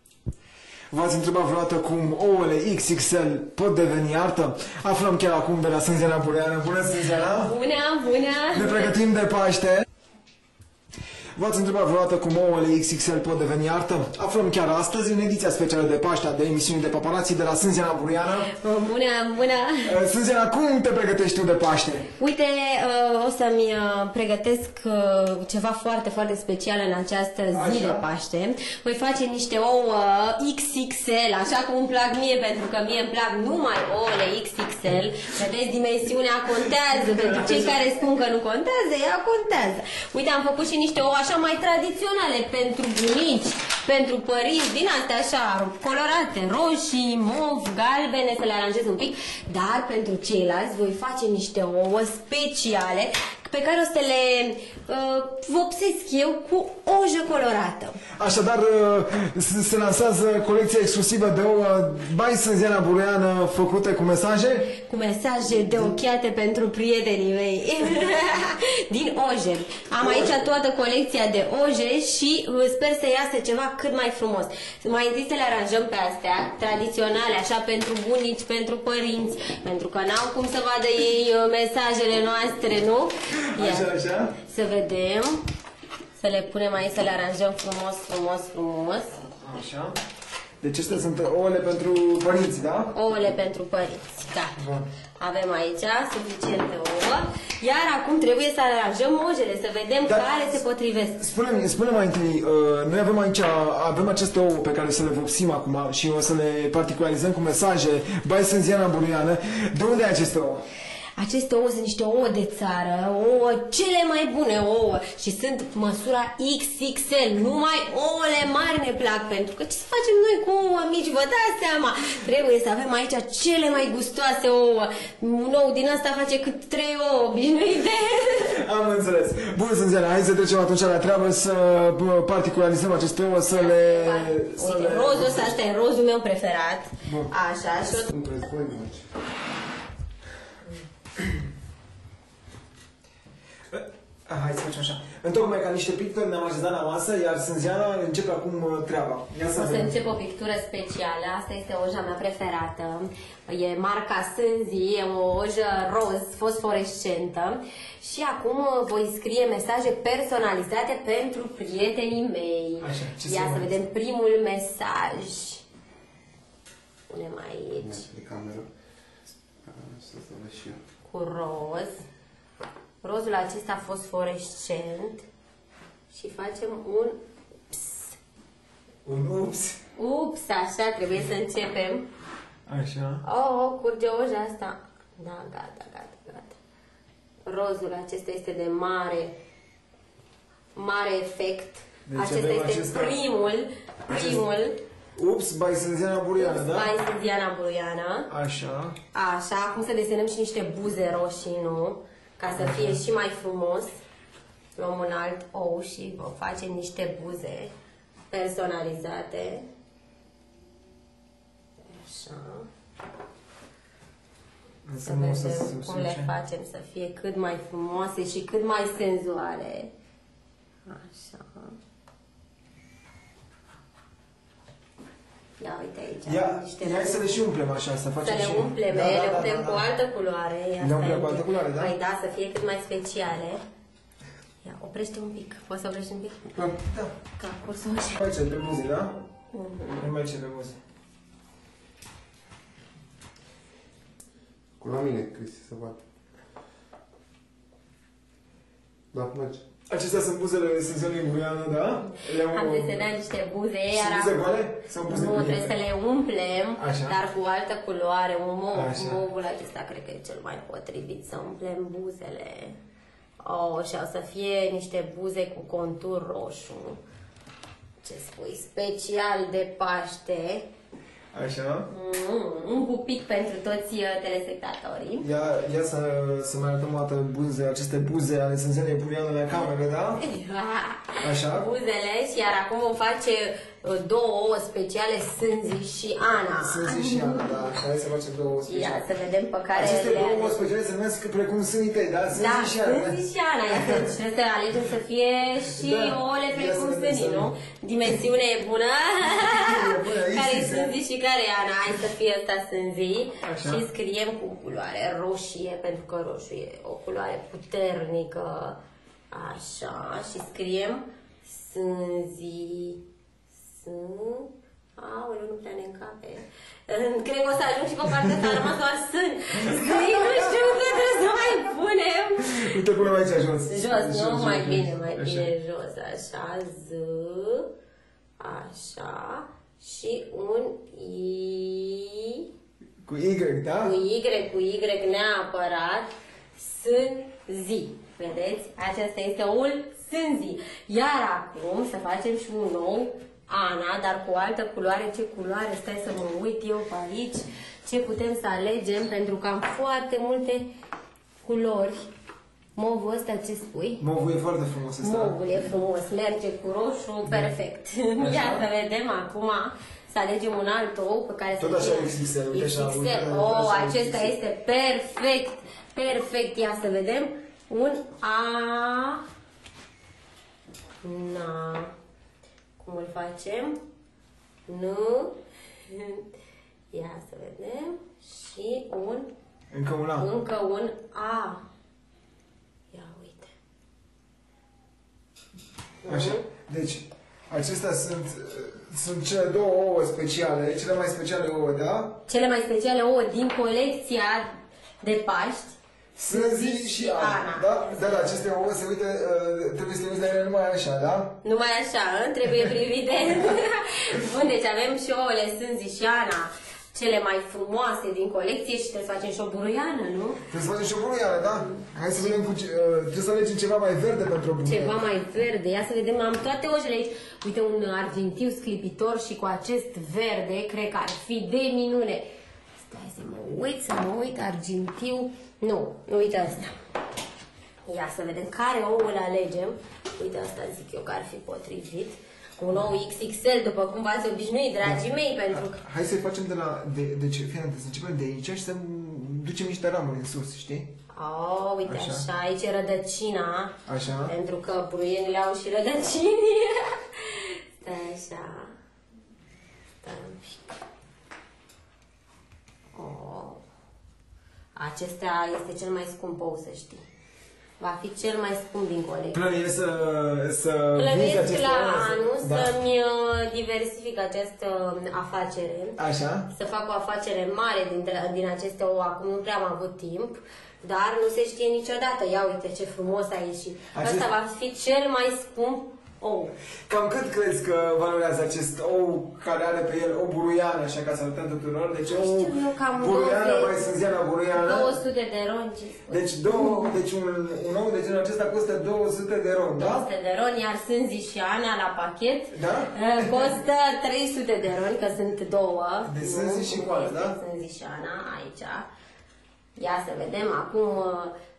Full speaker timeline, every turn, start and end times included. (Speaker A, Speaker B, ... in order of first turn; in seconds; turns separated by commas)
Speaker A: 0.9-7.5, Speaker B: 7.2-8.9, Speaker A: 8.5-9.8, Speaker A: 11.3-18.5, Speaker B: 18.5-20.0, Speaker A: 19.8-22.1, Speaker B: 22.2-58.0, Speaker A: 27.5-28.0, Speaker A: 37.1-37.7, Speaker A: 58.2-64.7, Speaker B: 64.8-85.4, Speaker A: 65.5-66.0, Speaker A: 70.0-70.3, Speaker A: 83.5-84.3, Speaker B: 86.2-89.2, Speaker A: 89.4-90.0, Speaker A: 90.6-92.9, Speaker B: 92.9-94.6, Speaker A: 94.5-94.9, Speaker B: 95.2-101.2, Speaker A: 100.0-100.5, Speaker A: 101.2-110.6, Speaker B: 111.2-128.6, Speaker A: 128.5-135.6, Speaker B: 133.5-138.1, Speaker A: 137.0-137.3, Speaker C: 138.1-139.0, Speaker A: 141.2-141.4, Speaker A: 143.7-149.9, Speaker B: 149.5-165.6, Speaker A: 162.8-163.8, Speaker B: 167.1-168.1, Speaker C: 167.8-168.7, Speaker C: 169.6-170.8, Speaker B: 171.0-172.0, Speaker B: 173.0-175.2, Speaker B: 176.1-177.2, Speaker B: 177.7-178.2, Speaker A: 179.1-179.8, Speaker B: 180.0-182.1, Speaker A: 182.7-183.2, Speaker B: 183.2-186.6, Speaker B: 187.4-189.3, Speaker B: 190.7-194.8, Speaker A: 192.1-193.2, Speaker A: 194.1-194.4, Speaker A: 195.2-196.9, Speaker B: 196.4-198.3, Speaker A: 198.3-199.0, Speaker B: 199.1-203.9, Speaker A: 202.6-203.0, Speaker B: 204.8-207.7, Speaker B: 208.3-209.7, Speaker B: 211.8-212.7, Speaker A: 214.8-216.3, Speaker B: 215.0-219.9, Speaker B: 220.8-221.8, Speaker B: 225.6-227.3, Speaker A: 226.2-229.9, Speaker B: 228.2-233.6, Speaker A: 230.8-231.9, Speaker B: 234.6-236.4, Speaker A: 236.8-237.1, Speaker B: 237.4-238.2, Speaker A: 238.2-239.2, Speaker B: 239.5-240.0, Speaker A: 240.0-240.8, Speaker C: 244.8-246.0, Speaker C: 249.1-249.6, Speaker A: 249.9-253.0, Speaker B: 252.5-254.4, Speaker A: 253.9-255.7, Speaker B: 255.1-262.8, Speaker A: 256.8-257.1, Speaker A: 258.7-259.2, Speaker B: 263.4-267.0, Speaker B: 268.0-270.7, Speaker A: 271.3-271.9, Speaker B: 271.9-275.3, Speaker A: 275.2-280.2, Speaker B: 280.2-287.7, Speaker A: 281.2-281.7, Speaker A: 286.6-289.0, Speaker B: 288.7-290.6, Speaker A: 289.7-294.0, Speaker B: 292.3-308.8, Speaker A: 295.7-297.5, Speaker A: 299.2-300.9, Speaker A: 303.4-303.8, Speaker B: 309.3-313.0, Speaker B: 313.7-322.7, Speaker A: 319.6-320.6, Speaker A: 322.4-325.5, Speaker B: 323.7-327.7, Speaker B: 328.4-332.4, Speaker A: 333.0-333.9, Speaker B: 333.8-350.7, Speaker B: 351.4-352.1, Speaker B: 352.8-354.0, Speaker A: 354.0-355.4, Speaker B: 355.0-369.2, Speaker A: 358.2-358.6, Speaker A: 361.6-364.3, Speaker B: 371.0-371.9, Speaker B: 372.8-373.8, Speaker B: 374.7-376.3, Speaker B: 376.9-379.3, Speaker A: 379.7-380.3, Speaker B: 380.2-381.6, Speaker B: 382.9-383.5, Speaker B: 386.0-386.4, Speaker A: 386.1-392.2, Speaker B: 392.3-395.8, Speaker A: 396.1-401.4, Speaker B: 396.3-398.2, Speaker B: 401.4-410.4, Speaker A: 410.5-415.1, Speaker B: 411.6-412.3, Speaker B: 414.6-422.2, Speaker B: 422.8-426.7, Speaker B: 427.9-435.8, Speaker A: 434.8-440.9, Speaker B: 441.1-448.7, Speaker A: 441.8-442.2, Speaker A: 443.9-444.3, Speaker B: 450.0-450.7, Speaker B: 452.9-453.6, Speaker B: 454.7-457.0, Speaker B: 457.8-459.4, Speaker A: 459.3-462.7, Speaker B: 460.9-466.0, Speaker A: 466.0-466.5, Speaker B: 466.5-476.5, Speaker A: 473.9-474.3, Speaker A: 476.9-484.9, Speaker B: 482.1-483.8, Speaker B: 484.5-486.9, Speaker A: 486.1-490.1, Speaker B: 489.8-498.9, Speaker A: 492.5-493.5, Speaker A: 496.0-497.4, Speaker B: 499.8-501.3